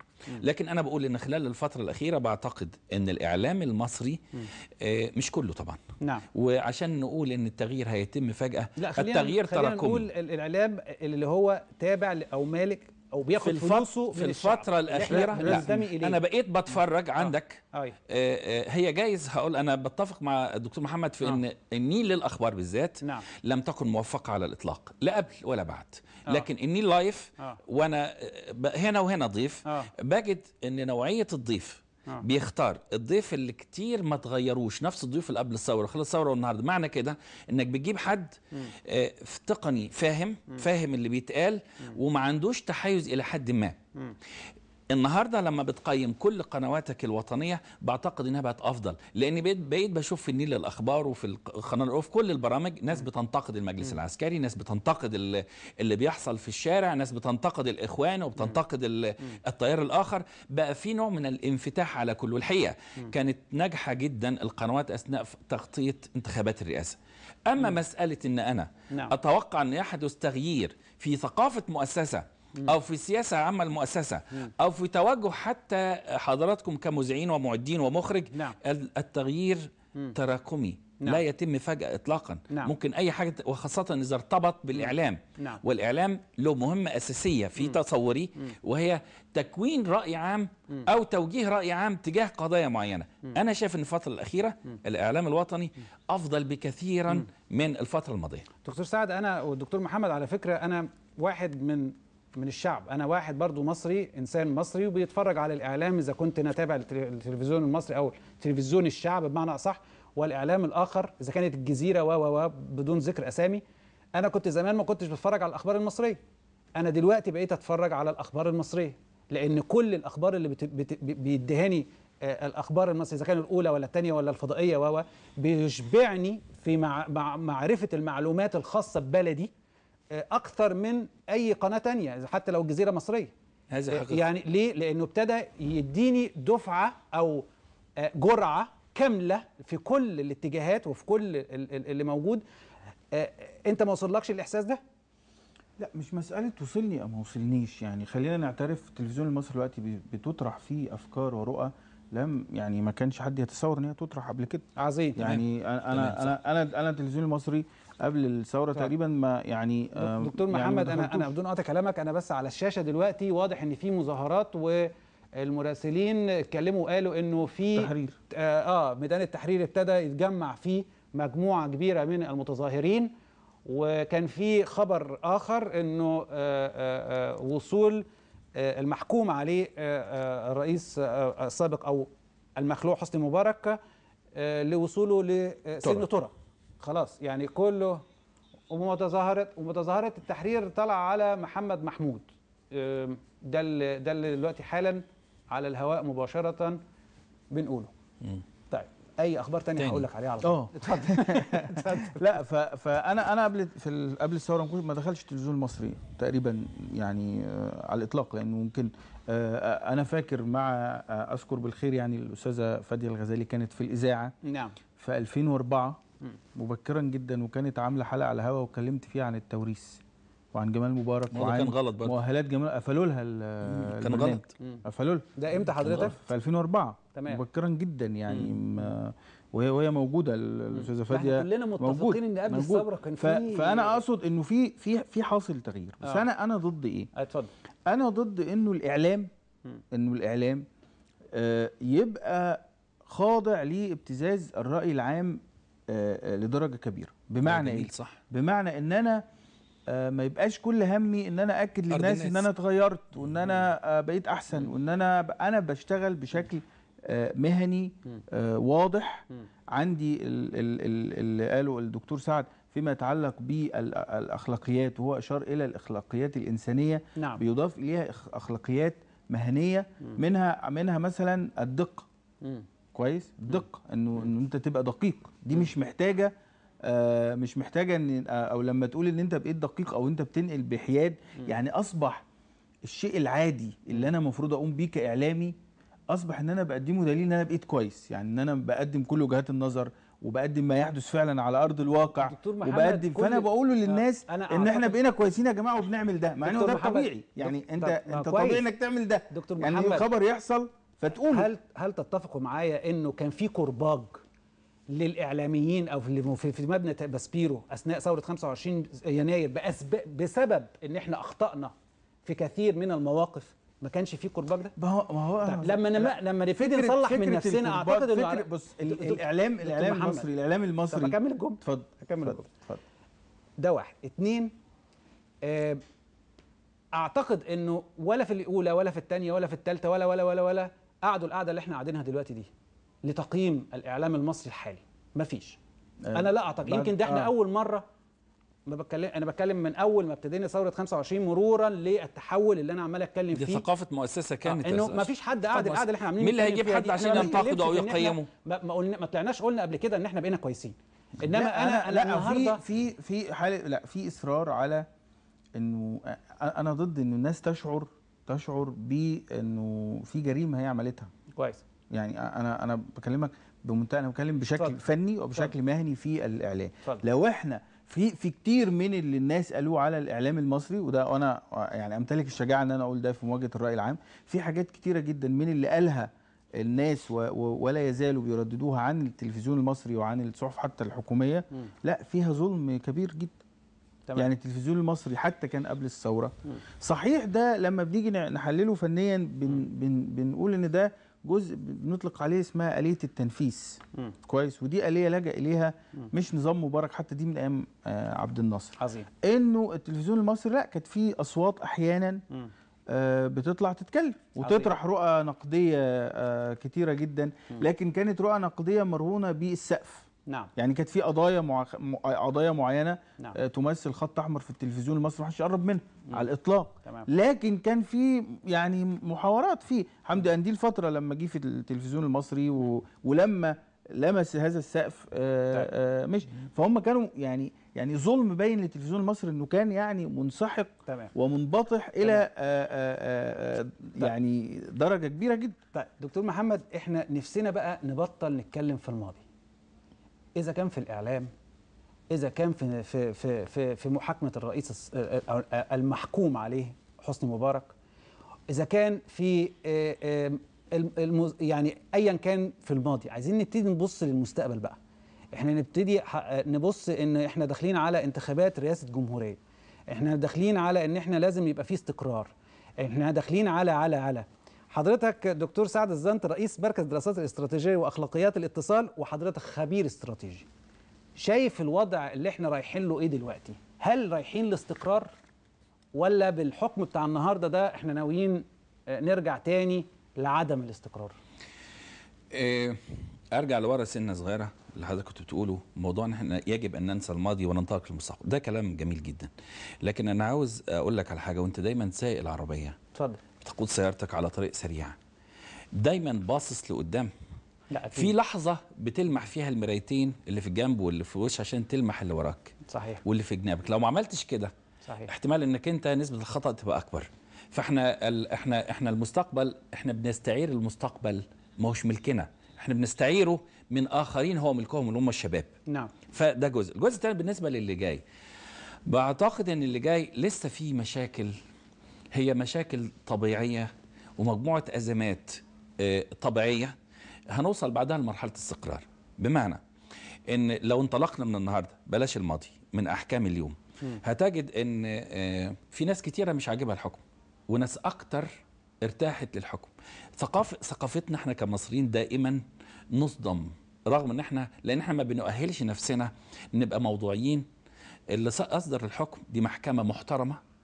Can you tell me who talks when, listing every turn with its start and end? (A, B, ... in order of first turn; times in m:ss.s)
0:00.4-0:05.8 A
0:06.0-0:06.3 B
0:06.3-0:10.1 A
0:08.8-0:16.2 B
0:13.4-0:43.8 A
0:15.1-0:15.8 C
0:17.2-0:18.0 B
0:29.7-0:29.9 B
0:44.9-1:38.5 A
1:18.3-1:18.6 B
1:24.8-1:25.6 B
1:38.6-1:53.6 B
1:54.2-1:56.2 B
1:56.8-2:09.5 B
2:10.1-2:13.3 B
2:13.7-2:14.3 A
2:13.9-2:17.5 B
2:18.0-2:22.4 B
2:23.1-2:24.8 B
2:25.8-2:41.3 C
2:34.8-2:35.4 B
2:35.9-2:36.3 A
2:40.0-2:53.1 B
2:47.8-2:48.2 C
2:53.6-3:03.8 B
3:04.4-3:08.0 B
3:05.8-3:06.1 A
3:08.7-3:16.8 B
3:17.5-3:17.9 B
3:18.7-3:22.2 B
3:19.8-3:20.1 A
3:20.4-3:34.4 C
3:34.4-3:34.8 B
3:35.0-3:36.0 C
3:36.6-3:40.0 C
3:40.5-3:57.1 C
3:41.3-3:42.2 A
3:43.6-3:44.5 A
3:45.4-3:46.2 B
3:47.2-3:47.4 B
3:48.3-3:48.6 B
3:50.7-3:54.0 B
3:57.2-3:57.5 B
3:57.9-3:59.3 C
3:59.9-4:00.7 C
4:01.3-4:09.2 C
4:07.4-4:08.2 A
4:09.9-4:32.1 C
4:11.9-4:12.5 A
4:27.2-4:27.4 B
4:32.9-4:36.3 C
4:36.8-4:42.2 C
4:42.8-4:45.6 C
4:46.1-5:01.5 C
4:52.2-4:55.0 B
4:56.4-4:58.6 B
4:59.3-5:00.1 B
5:01.2-5:04.2 B
5:04.9-5:11.7 B
5:12.2-5:14.8 B
5:14.8-5:22.8 C
5:15.4-5:20.3 B
5:20.9-5:22.4 B
5:23.6-5:24.5 B
5:25.4-5:25.8 B
5:26.9-5:32.5 B
5:33.0-5:35.6 B
5:36.0-5:37.3 C
5:36.1-5:37.8 B
5:38.7-5:43.6 B
5:43.3-5:48.3 A
5:44.4-5:52.6 B
5:51.2-5:54.9 C
5:55.6-6:01.1 C
6:01.3-6:01.6 B
6:01.9-6:23.4 C
6:24.2-6:42.2 C
6:38.8-6:39.1 B
6:42.9-7:15.6 C
6:44.4-6:44.7 B
7:10.9-7:11.1 B
7:15.7-7:19.2 B
7:20.4-7:21.3 B
7:22.1-7:27.7 B
7:28.5-7:34.8 B
7:35.3-7:39.4 B
7:39.9-7:50.5 B
7:51.2-7:55.1 B
7:55.9-8:01.2 B
8:02.3-8:09.3 A
8:09.8-8:12.8 A
8:12.9-8:13.2 B
8:13.4-8:15.0 A
8:15.8-8:17.1 A
8:17.7-8:18.1 B
8:17.9-8:24.5 A
8:22.7-8:23.0 B
8:24.8-8:25.1 B
8:25.1-8:35.5 A
8:36.1-8:38.0 A
8:38.9-8:41.3 A
8:42.1-8:46.8 A
8:47.3-8:49.6 A
8:50.3-8:58.3 A
8:58.8-9:07.5 A
9:08.1-9:10.4 A